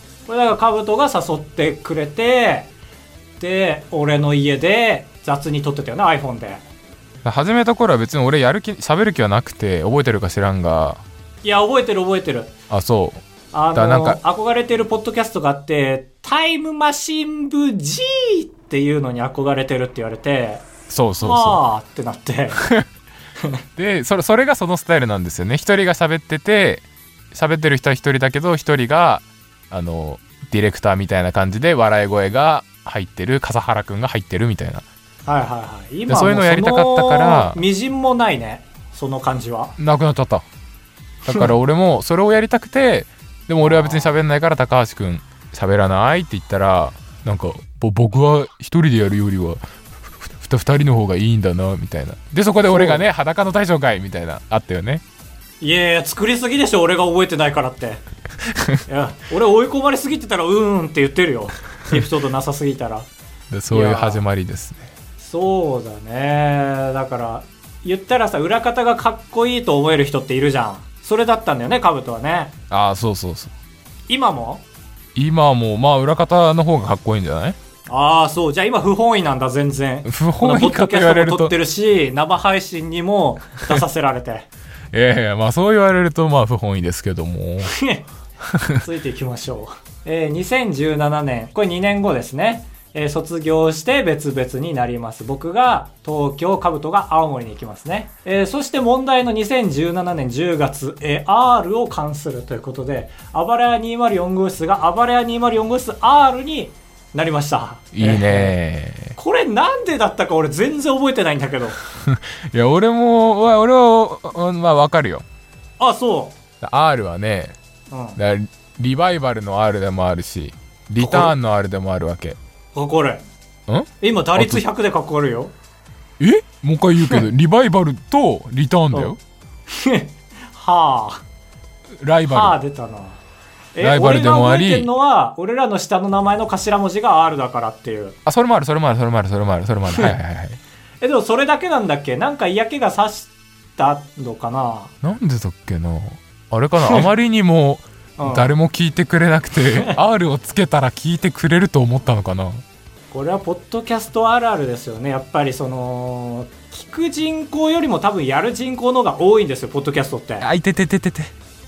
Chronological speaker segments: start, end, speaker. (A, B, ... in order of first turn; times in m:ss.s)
0:00.3-0:02.7 A
0:03.4-0:06.6 A
0:07.2-0:11.0 B
0:11.4-0:12.5 A
0:12.7-0:14.2 B
0:13.5-0:20.7 A
0:20.9-0:21.6 B
0:21.2-0:22.6 A
0:23.8-0:34.8 B
0:35.3-0:39.8 A
0:36.1-0:37.6 B
0:39.8-0:40.4 B
0:41.3-0:49.6 B
0:43.6-0:44.2 A
0:50.2-0:55.0 B
0:52.7-0:53.0 A
0:55.6-0:58.0 A
0:58.5-0:58.8 B
0:58.9-1:03.1 A
1:03.5-1:04.9 B
1:03.7-1:04.2 A
1:05.2-1:12.6 A
1:12.7-1:13.5 B
1:14.1-1:14.6 A
1:15.2-1:17.6 B
1:17.9-1:24.5 A
1:20.0-1:21.5 B
1:24.9-1:27.7 B
1:27.6-1:28.1 A
1:28.5-1:28.8 B
1:28.8-1:48.5 A
1:47.9-1:49.2 B
1:49.2-1:51.8 A
1:52.0-1:55.2 B
1:55.8-1:56.4 A
1:56.6-1:57.6 B
1:57.9-1:58.2 A
1:58.2-2:02.4 B
2:01.0-2:01.3 A
2:02.8-2:03.2 A
2:03.7-2:04.6 B
2:04.0-2:05.5 A
2:06.2-2:09.2 B
2:09.7-2:11.2 A
2:12.0-2:12.6 B
2:12.3-2:13.2 A
2:13.8-2:18.2 A
2:13.8-2:14.9 B
2:18.3-2:20.6 B
2:21.0-2:24.9 A
2:25.0-2:32.6 B
2:28.2-2:28.5 A
2:33.1-2:40.5 A
2:40.4-2:41.3 B